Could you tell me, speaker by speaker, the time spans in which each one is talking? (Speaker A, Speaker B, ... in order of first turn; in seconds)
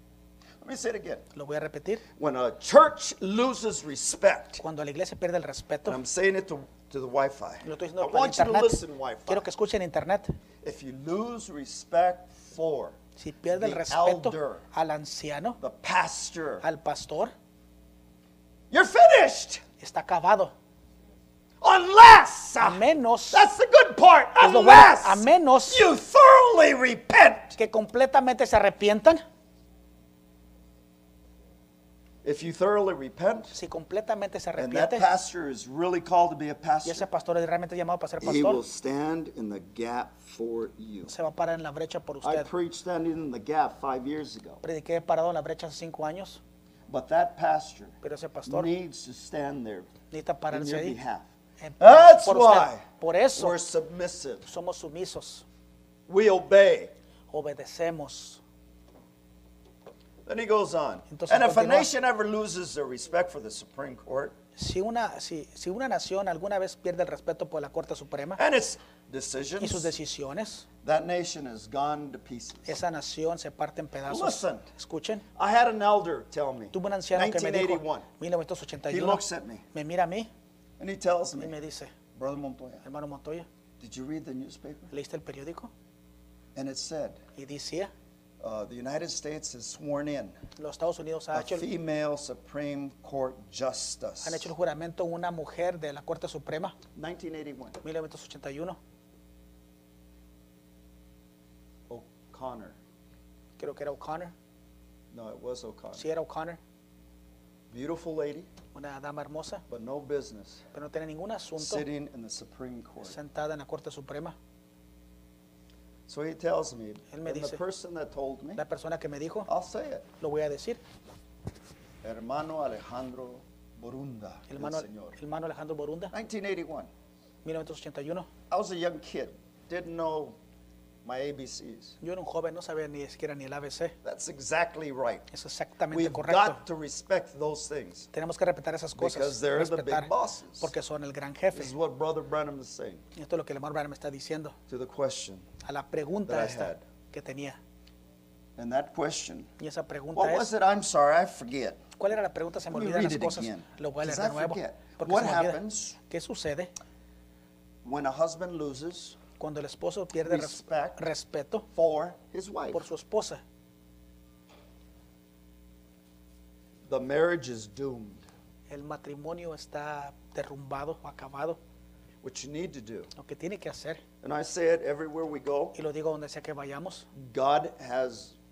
Speaker A: 0.6-1.2, 2.2-4.6, 5.9-9.5, 10.6-13.0, 13.5-14.6, 15.6-16.6, 18.7-19.6, 21.6-27.6, 32.2-33.5, 34.6-37.1, 38.2-41.1, 42.2-44.6, 46.9-48.0, 48.5-49.9, 50.5-51.3, 51.8-52.8, 53.4-54.5, 56.1-56.9, 60.3-64.4, 68.4-69.9, 70.8-72.7, 74.1-74.6, 75.4-78.1, 78.9-79.6, 80.8-81.6, 82.2-82.8, 83.8-84.9, 86.5-87.2, 88.4-90.3, 91.3-94.5, 97.0-97.8, 101.9-102.8, 105.1-106.0, 107.7-108.5, 109.7-110.6, 111.6-113.2, 116.1-118.6, 119.5-120.1, 122.0-125.2, 126.1-126.9, 128.5-130.4, 131.0-132.0, 134.0-135.3, 135.9-138.1, 139.0-140.7, 141.5-143.0, 144.7-145.4, 146.3-146.8, 148.6-149.5, 150.2-151.8, 152.7-156.0, 157.8-159.2, 160.2-161.0, 161.7-162.9, 166.9-168.2, 172.2-173.1, 174.2-175.8, 177.2-178.3
Speaker B: 1.4-2.0, 4.6-6.0, 7.6-10.3, 13.2-15.6, 16.6-17.3, 19.8-20.5, 22.6-23.4, 24.4-25.9, 27.6-29.2, 33.5-35.1, 36.9-38.6, 41.1-42.5, 44.6-46.4, 48.0-48.7, 50.1-51.0, 51.6-53.5, 54.5-55.5, 57.3-58.4, 61.1-61.9, 64.6-68.4, 69.6-70.7, 72.7-75.2, 76.7-79.2, 79.7-80.3, 81.4-81.9, 82.8-83.5, 84.9-85.7, 87.4-87.9, 90.6-91.7, 94.2-96.8, 97.8-98.8, 103.6-104.3, 106.0-106.6, 108.7-109.6, 110.7-111.8, 113.0-114.3, 117.1-117.6, 118.6-119.5, 120.2-120.8, 124.5-126.1, 127.4-128.3, 132.0-133.9, 135.3-136.6, 138.1-141.7, 143.2-144.6, 145.7-147.6, 149.6-150.5, 152.0-156.7, 159.4-161.7, 162.7-163.4, 168.7-171.6, 173.2-174.0, 175.8-177.1